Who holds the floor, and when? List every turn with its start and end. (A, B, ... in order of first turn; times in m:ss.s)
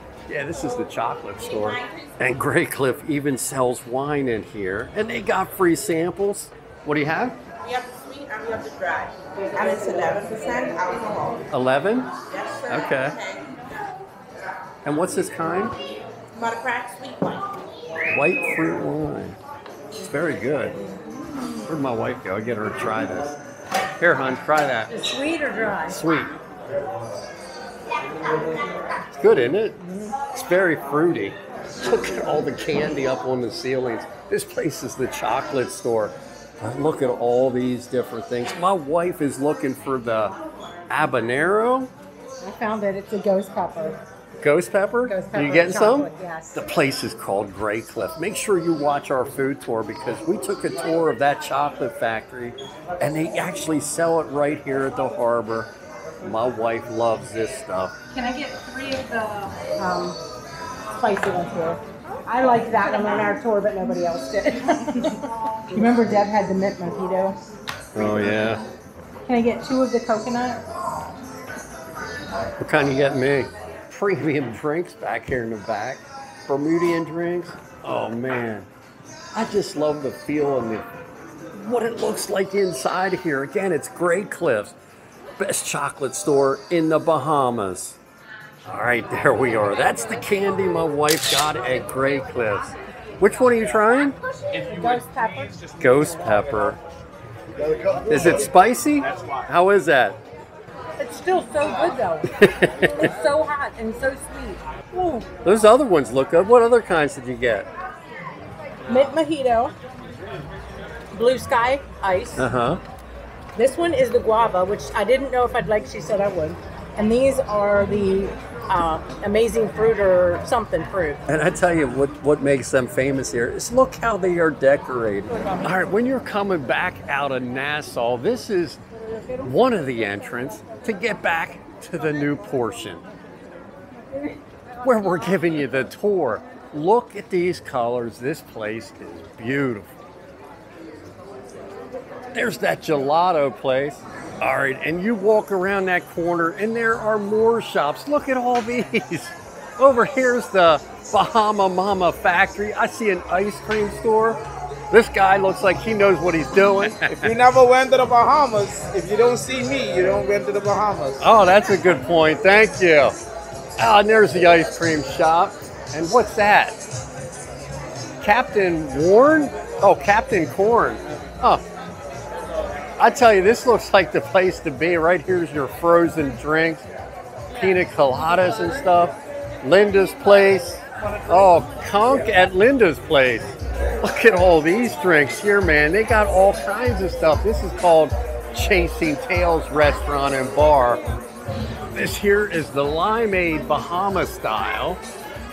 0:00.3-0:07.4 A
0:07.6-0:11.5 B
0:11.5-0:12.1 A
0:12.3-0:13.5 B
0:12.7-0:13.2 A
0:14.8-0:15.8 A
0:16.3-0:17.5 B
0:18.1-0:19.4 A
0:19.9-0:20.8 A
0:21.6-0:23.4 A
0:24.0-0:25.0 A
0:24.9-0:26.0 C
0:25.9-0:26.4 A
0:29.1-0:40.4 A
0:40.9-0:41.9 A
0:42.4-0:44.0 C
0:44.4-0:55.7 A
0:45.1-0:46.6 C
0:56.2-0:57.9 A
0:58.1-1:00.2 C
1:01.0-1:07.4 C
1:07.9-1:08.6 A
1:09.2-1:10.6 C
1:12.6-1:18.7 A
1:19.4-1:20.9 A
1:21.5-1:24.8 A
1:25.4-1:28.0 A
1:28.7-1:34.2 A
1:34.6-1:35.6 C
1:35.8-1:36.8 A
1:38.1-1:40.2 A
1:41.0-1:45.3 C
1:42.4-1:42.9 A
1:45.4-1:47.7 A
1:48.9-1:49.8 C
1:51.1-1:52.5 C
1:52.4-1:52.8 A
1:53.6-2:01.2 C
2:01.3-2:08.8 A
2:09.4-2:13.1 A
2:14.8-2:20.0 A
2:22.3-2:37.4 A
2:36.9-2:41.2 D
2:41.2-2:43.2 A
2:43.8-2:46.8 A
2:48.2-2:51.6 A
2:53.0-2:56.8 A
2:57.5-3:11.0 A
3:11.9-3:15.0 A